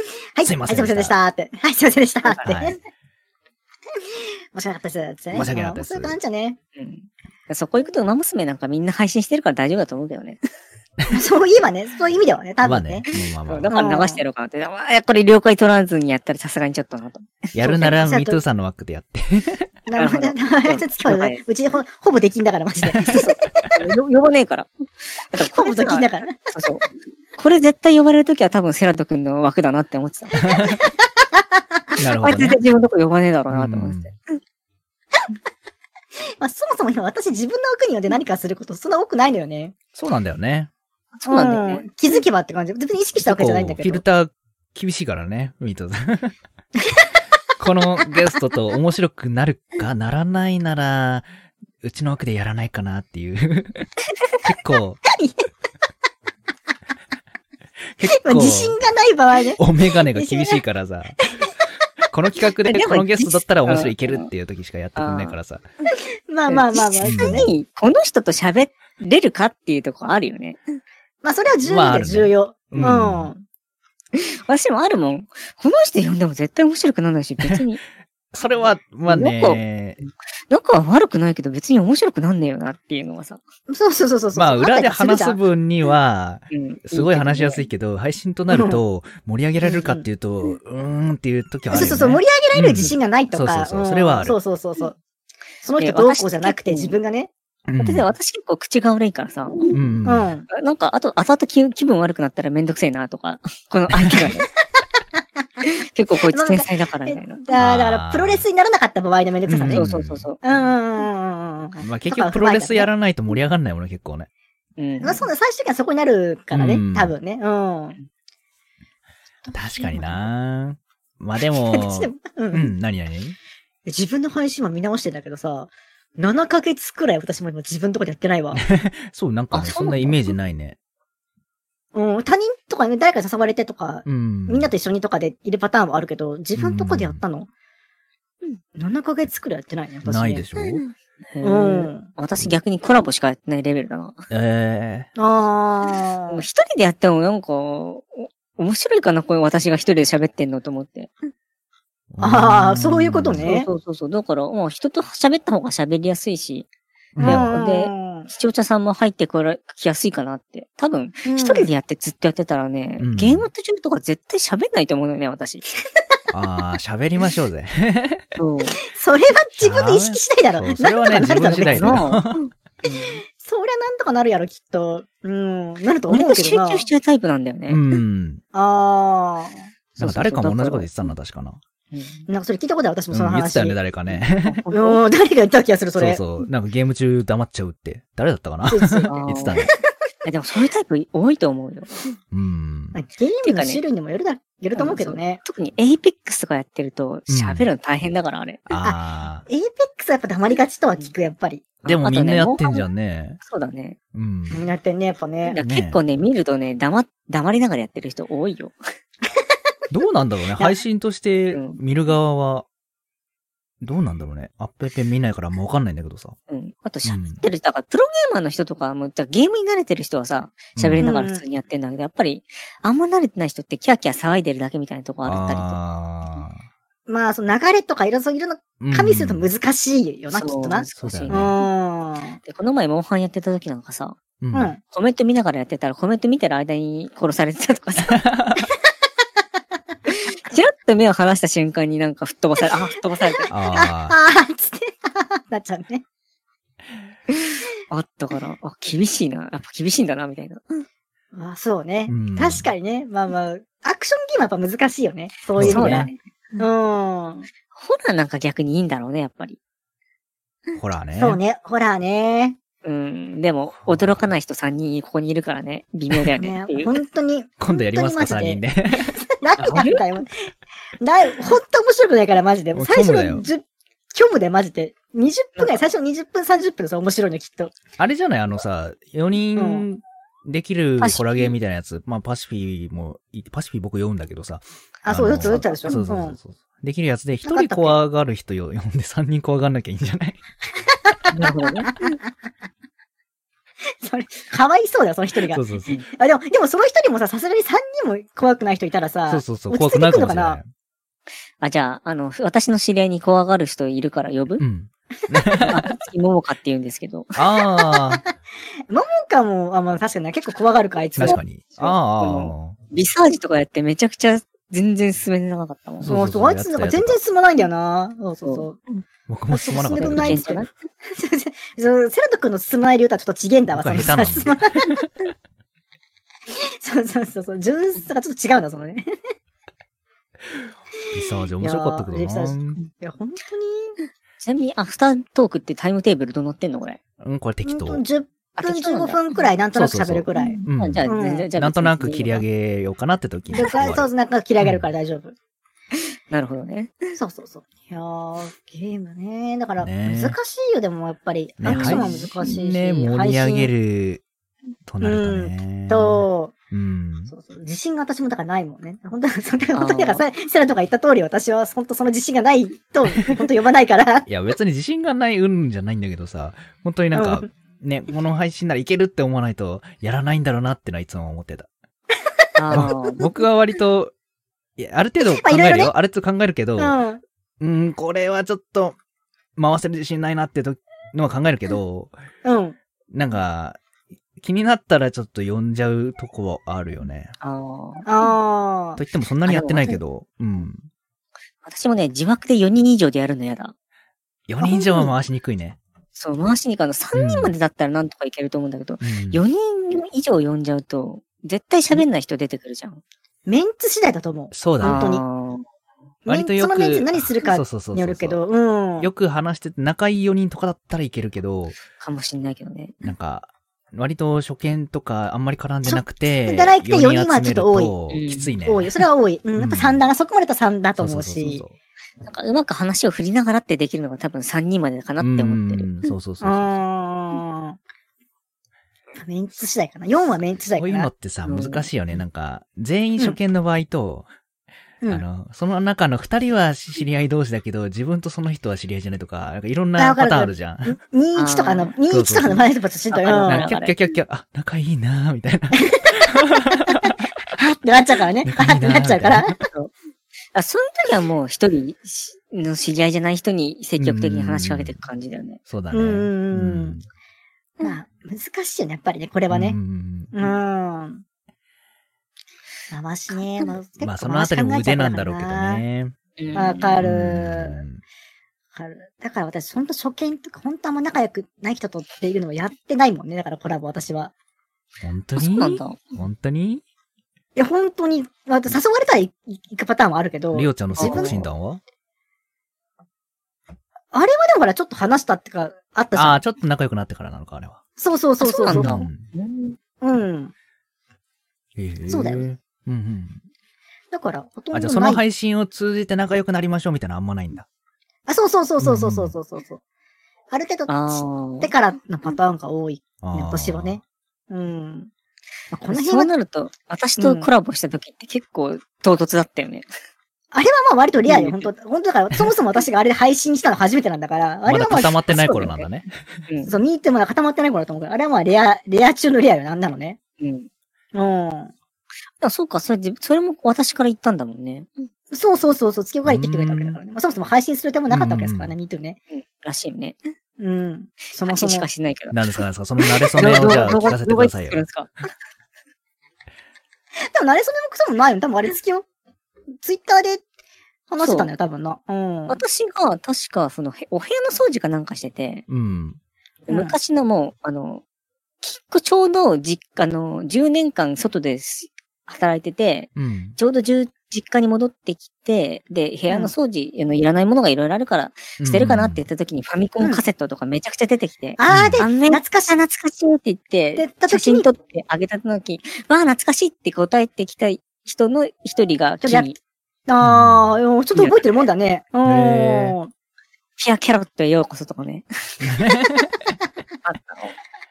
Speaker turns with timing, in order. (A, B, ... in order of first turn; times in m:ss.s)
0:00.4-0:02.8 A
0:00.4-0:01.2 B
0:02.2-0:02.8 C
0:02.5-0:02.8 B
0:04.5-0:06.6 A
0:05.3-0:06.2 B
0:06.8-0:10.4 C
0:11.1-0:13.1 A
0:12.6-0:13.8 B
0:13.2-0:18.0 C
0:13.7-0:14.2 A
0:17.6-0:19.7 B
0:17.8-0:18.4 A
0:19.9-0:23.6 A
0:20.0-0:21.4 C
0:23.1-0:24.7 C
0:25.2-0:30.6 C
0:25.5-0:26.5 A
0:30.4-0:30.8 B
0:30.7-0:32.0 A
0:32.0-0:32.6 B
0:32.2-0:34.2 C
0:33.5-0:34.1 B
0:36.4-0:39.8 A
0:40.0-0:40.7 B
0:41.2-0:41.9 C
0:41.2-0:44.0 A
0:43.2-0:46.4 B
0:47.6-0:51.3 B
0:51.8-0:53.9 B
0:54.4-0:55.0 B
0:55.1-0:55.5 A
0:58.0-0:58.8 B
0:58.1-1:00.6 A
0:59.6-1:01.2 B
1:01.2-1:01.5 A
1:02.1-1:05.6 B
1:02.7-1:04.3 C
1:05.0-1:05.4 C
1:06.3-1:07.5 A
1:06.5-1:10.6 C
1:07.0-1:07.5 B
1:11.2-1:13.4 A
1:11.6-1:13.3 B
1:14.2-1:17.8 C
1:18.3-1:20.0 B
1:19.1-1:23.4 C
1:23.7-1:25.4 A
1:24.3-1:34.4 B
1:26.5-1:27.7 C
1:28.5-1:28.8 A
1:31.7-1:35.0 A
1:35.6-1:37.3 A
1:35.8-1:37.0 C
1:37.7-1:38.1 B
1:37.8-1:39.8 C
1:39.7-1:40.4 B
1:40.0-1:40.5 A
1:40.5-1:44.5 C
1:45.9-1:47.5 C
1:46.2-1:52.9 A
1:47.6-1:48.5 B
1:49.5-1:50.3 B
1:49.6-1:50.7 C
1:51.8-1:54.3 B
1:54.8-1:55.2 C
1:55.0-1:58.0 A
1:56.5-1:57.2 B
1:59.4-2:00.3 C
1:59.5-2:03.4 B
2:01.6-2:02.7 A
2:03.9-2:08.6 A
2:08.6-2:10.8 B
2:09.5-2:10.3 C
2:11.9-2:17.5 A
2:14.1-2:14.7 B
2:16.6-2:17.2 B
2:18.8-2:20.4 A
2:20.0-2:20.8 B
2:20.6-2:24.2 C
2:21.4-2:22.1 A
2:24.3-2:25.1 B
2:25.2-2:26.5 A
2:26.3-2:31.1 C
2:32.1-2:33.6 B
2:32.2-2:33.7 A
2:33.4-2:36.7 C
2:37.2-2:38.3 A
2:37.2-2:37.6 B
2:37.2-2:45.6 C
2:41.2-2:41.7 A
2:43.0-2:43.5 B
2:46.3-2:48.2 B
2:48.4-2:48.8 C
2:48.8-2:52.1 A
2:49.5-2:52.4 B
2:51.6-2:53.2 C
2:53.4-2:56.9 A
2:56.1-2:57.8 C
2:57.7-2:58.4 B
2:58.5-2:59.6 A
3:00.0-3:00.9 C
3:00.0-3:01.6 B
3:01.9-3:02.2 C
3:02.3-3:03.8 A
3:03.1-3:04.6 B
3:04.4-3:05.0 C
3:04.7-3:06.2 A
3:06.0-3:09.7 B
3:08.7-3:09.8 A
3:09.1-3:09.6 C
3:10.2-3:12.0 C
3:12.3-3:13.0 B
3:12.9-3:15.4 A
3:13.4-3:13.8 C
3:14.7-3:18.6 C
3:17.3-3:17.7 B
3:18.7-3:19.5 B
3:18.8-3:21.8 A
3:21.8-3:22.8 C
3:21.8-3:23.4 B
3:23.4-3:24.0 C
3:24.1-3:24.7 B
3:24.5-3:25.6 A
3:25.4-3:28.8 C
3:25.6-3:26.0 B
3:29.9-3:32.7 B
3:31.5-3:31.8 C
3:33.8-3:36.4 B
3:36.5-3:45.8 C
3:37.0-3:37.4 B
3:40.8-3:41.2 B
3:41.0-3:41.4 A
3:45.2-3:46.6 B
3:47.1-3:52.4 A
3:48.8-3:49.5 B
3:50.3-3:51.7 C
3:51.0-3:51.6 B
3:52.4-3:54.2 C
3:54.4-3:54.7 B
3:54.5-3:54.8 A
3:54.8-3:58.2 C
3:58.2-3:58.6 B
4:00.1-4:03.6 C
4:03.5-4:04.2 B
4:03.7-4:06.0 A
4:07.9-4:10.9 C
4:11.3-4:17.5 A
4:12.1-4:12.7 B
4:15.5-4:16.1 B
4:15.6-4:16.2 C
4:17.7-4:19.6 C
4:20.8-4:21.4 B
4:21.2-4:22.6 A
4:22.8-4:26.9 C
4:23.8-4:24.3 B
4:26.4-4:30.3 A
4:27.6-4:30.0 B
4:29.7-4:30.0 C
4:31.0-4:33.6 A
4:32.7-4:33.5 B
4:34.1-4:37.8 A
4:35.6-4:35.9 C
4:38.0-4:50.4 B
4:39.6-4:39.9 A
4:41.0-4:41.5 C
4:45.0-4:46.4 A
4:45.5-4:46.0 C
4:47.4-4:48.0 A
4:51.3-4:52.2 C
4:51.8-4:52.2 A
4:54.0-5:00.6 A
4:55.5-4:56.0 B
4:59.3-5:00.7 B
5:01.6-5:04.6 C
5:04.6-5:05.9 B
5:05.7-5:07.3 C
5:07.4-5:08.2 B
5:07.8-5:08.2 A
5:08.9-5:11.4 A
5:11.2-5:16.1 C
5:11.2-5:12.8 B
5:16.0-5:17.2 B
5:16.1-5:18.8 A
5:18.4-5:19.0 C
5:19.3-5:20.4 B
5:19.5-5:24.9 A
5:19.9-5:20.7 C
5:23.7-5:25.1 B
5:26.5-5:29.1 A
5:31.1-5:32.8 B
5:31.2-5:34.0 A
5:34.4-5:37.0 C
5:37.2-5:38.0 B
5:37.6-5:41.5 A
5:38.6-5:39.4 C
5:39.7-5:44.9 B
5:40.4-5:42.4 C
5:43.5-5:45.4 A
5:46.3-5:47.0 C
5:47.2-5:53.7 A
5:49.8-5:50.4 B
5:51.6-5:54.2 B
5:51.6-5:52.4 C
5:54.9-5:57.3 B
5:55.0-5:56.5 A
5:57.3-6:04.3 A
5:59.8-6:00.2 C
6:04.3-6:11.7 B
6:07.1-6:07.5 A
6:12.6-6:13.2 C
6:12.6-6:13.0 A
6:12.7-6:14.1 B
6:14.8-6:17.0 B
6:15.2-6:15.9 A
6:16.8-6:17.2 A
6:17.6-6:19.0 B
6:19.6-6:22.1 B
6:22.4-6:22.8 A
6:23.1-6:23.8 B
6:24.4-6:27.3 B
6:27.4-6:28.1 C
6:28.1-6:29.0 A
6:29.0-6:30.8 B
6:29.5-6:30.0 C
6:31.6-6:33.7 C
6:34.5-6:35.8 B
6:34.6-6:35.1 A
6:36.1-6:43.0 C
6:37.1-6:37.5 B
6:39.0-6:39.4 B
6:43.5-6:45.2 A
6:44.5-6:45.1 B
6:44.8-6:45.6 C
6:46.3-6:48.4 B
6:46.3-6:49.1 A
6:49.0-6:51.8 B
6:52.0-6:53.0 C
6:53.0-6:59.0 B
6:55.8-6:58.0 A
6:58.1-6:58.6 C
6:58.6-7:01.6 A
6:59.6-7:00.1 B
7:01.0-7:01.8 B
7:02.2-7:06.0 C
7:05.2-7:06.8 B
7:06.4-7:07.8 A
7:09.2-7:11.1 A
7:10.8-7:14.3 B
7:11.4-7:11.9 C
7:15.1-7:21.0 B
7:20.0-7:23.7 A
7:21.4-7:22.0 C
7:22.1-7:22.7 B
7:23.1-7:24.0 C
7:23.4-7:27.1 B
7:25.9-7:27.0 A
7:27.5-7:29.7 A
7:28.4-7:29.7 B
7:30.5-7:35.6 C
7:34.0-7:35.0 B
7:35.7-7:37.0 B
7:35.9-7:37.0 A
7:37.8-7:39.8 A
7:39.5-7:40.6 B
7:40.3-7:41.2 A
7:42.9-7:45.8 A
7:44.0-7:46.2 B
7:46.4-7:47.0 C
7:46.5-7:47.8 A
7:47.0-7:48.0 B
7:48.8-7:54.3 A
7:55.0-7:56.8 B
7:55.4-7:56.2 C
7:57.6-8:01.4 A
8:00.5-8:01.8 B
8:01.0-8:01.4 C
8:04.1-8:06.4 A
8:06.1-8:07.8 B
8:08.0-8:09.0 A
8:08.4-8:09.8 C
8:08.7-8:09.3 B
8:10.0-8:10.5 A
8:11.8-8:13.4 B
8:12.1-8:12.5 A
8:14.1-8:15.2 A
8:14.7-8:17.7 B
8:18.3-8:19.8 A
8:18.8-8:19.4 B
8:20.5-8:25.1 A
8:20.9-8:21.7 C
8:23.2-8:24.0 B
8:25.7-8:26.3 A
8:25.9-8:29.9 C
8:27.2-8:27.5 A
8:30.5-8:35.3 A
8:31.2-8:31.7 C
8:34.7-8:36.4 B
8:35.3-8:35.8 C
8:36.5-8:36.7 C
8:36.6-8:40.2 A
8:40.4-8:40.7 C
8:41.1-8:41.7 A
8:42.4-8:45.0 C
8:45.3-8:49.2 A
8:46.2-8:47.0 B
8:48.1-8:48.8 B
8:49.3-8:50.2 C
8:50.6-8:51.9 A
8:51.5-8:52.4 C
8:52.3-8:54.8 B
8:53.0-8:55.1 C
8:57.3-8:59.0 A
8:59.8-9:00.4 A
9:01.1-9:02.6 A
9:01.2-9:01.5 C
9:02.5-9:05.6 C
9:05.7-9:06.2 B
9:06.7-9:08.0 C
9:06.7-9:07.0 A
9:08.6-9:29.6 C
9:13.2-9:13.6 B
9:16.3-9:16.5 A
9:18.6-9:19.2 B
9:20.0-9:20.2 A
9:21.6-9:22.8 A
9:21.7-9:22.1 B
9:24.0-9:24.7 A
9:29.2-9:29.5 A
9:30.1-9:33.1 A
9:30.2-9:30.8 B
9:31.2-9:31.6 C
9:32.2-9:33.0 B
9:33.8-9:35.3 C
9:35.6-9:36.4 B
9:37.0-9:37.6 C